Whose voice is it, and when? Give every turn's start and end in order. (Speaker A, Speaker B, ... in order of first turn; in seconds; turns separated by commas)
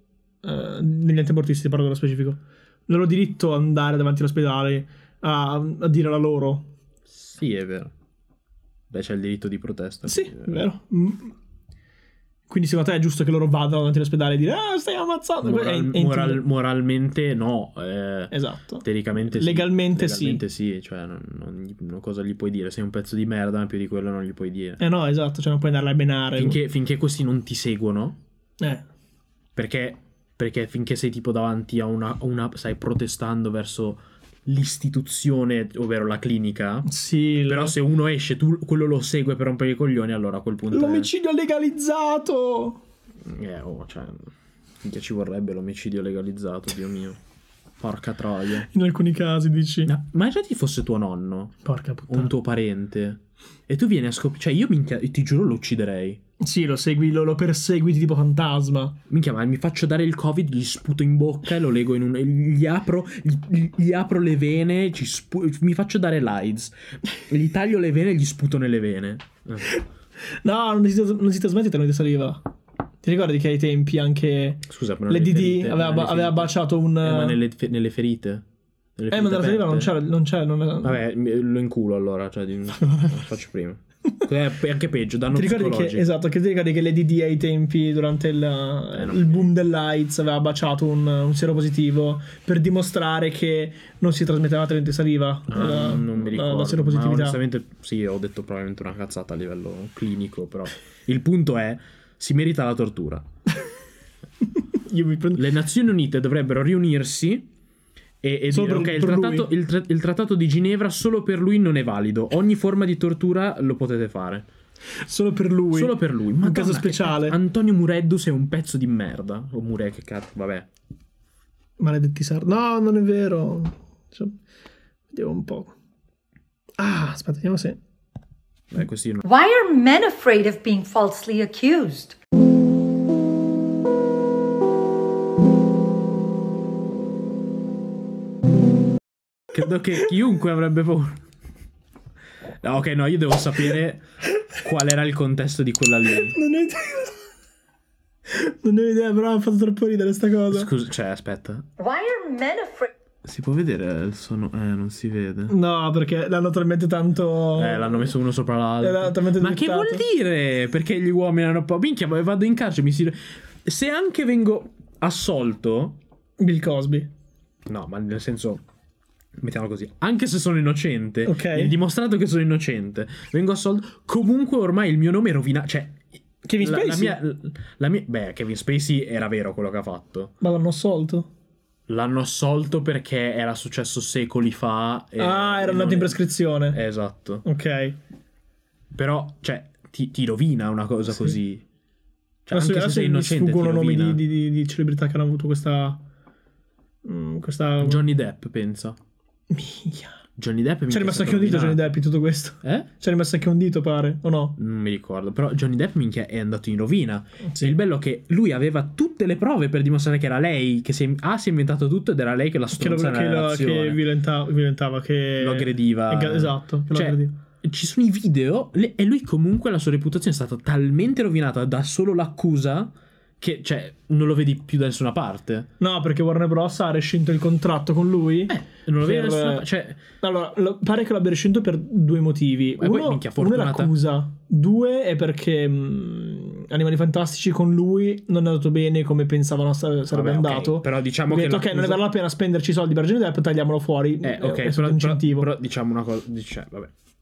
Speaker A: 0.4-6.7, Speaker B: 7.1-7.9, Speaker B: 8.9-10.6, Speaker A: 10.1-11.3, Speaker A: 12.5-16.4, Speaker B: 15.4-24.8, Speaker A: 18.3-20.4, Speaker A: 24.8-26.6, Speaker B: 26.4-28.2, Speaker A: 28.6-28.9, Speaker B: 29.6-36.9, Speaker A: 36.9-37.8, Speaker B: 37.5-41.1, Speaker A: 40.7-42.8, Speaker B: 43.2-44.3, Speaker B: 44.8-47.2, Speaker B: 47.8-48.7, Speaker A: 48.6-49.9, Speaker B: 49.8-56.2, Speaker A: 51.6-52.3, Speaker A: 56.4-59.0, Speaker B: 59.1-69.8, Speaker A: 70.4-72.4, Speaker A: 73.0-77.4, Speaker B: 74.7-78.4, Speaker B: 79.0-79.9, Speaker A: 79.1-81.0, Speaker B: 80.8-86.1, Speaker A: 82.8-83.1, Speaker A: 85.3-97.4, Speaker B: 88.9-89.5, Speaker B: 95.5-103.3, Speaker A: 104.8-105.5, Speaker B: 105.3-107.5, Speaker B: 108.2-114.5, Speaker A: 108.5-109.5, Speaker A: 115.0-117.4, Speaker B: 115.7-120.7, Speaker A: 121.8-124.3, Speaker A: 125.1-125.7, Speaker A: 126.8-127.8, Speaker B: 128.7-129.2, Speaker C: 129.2-132.2, Speaker B: 139.5-141.2, Speaker B: 142.6-144.0, Speaker B: 144.6-146.4, Speaker A: 146.2-147.2, Speaker A: 148.3-150.7, Speaker B: 150.5-151.7, Speaker C: 151.8-152.9, Speaker B: 153.2-155.6, Speaker A: 155.5-158.1, Speaker B: 157.6-166.0, Speaker A: 158.8-160.0, Speaker A: 166.4-167.1, Speaker B: 167.7-168.6, Speaker B: 169.4-180.3, Speaker A: 171.2-171.7, Speaker A: 176.4-177.2, Speaker A: 180.4-181.3, Speaker B: 181.9-187.4, Speaker A: 185.2-186.8, Speaker A: 187.4-188.0, Speaker B: 188.9-191.6, Speaker B: 192.5-194.2, Speaker A: 192.5-196.0, Speaker A: 197.0-198.0, Speaker B: 197.8-199.0, Speaker A: 199.5-200.2, Speaker B: 200.4-201.8, Speaker A: 200.9-204.6, Speaker B: 202.6-202.9, Speaker B: 204.6-214.0, Speaker A: 207.5-207.8, Speaker A: 212.8-217.3, Speaker B: 215.4-225.7, Speaker A: 225.8-229.7, Speaker B: 228.5-230.0, Speaker A: 230.2-245.5, Speaker B: 232.8-233.9, Speaker B: 240.1-242.1, Speaker B: 244.2-246.9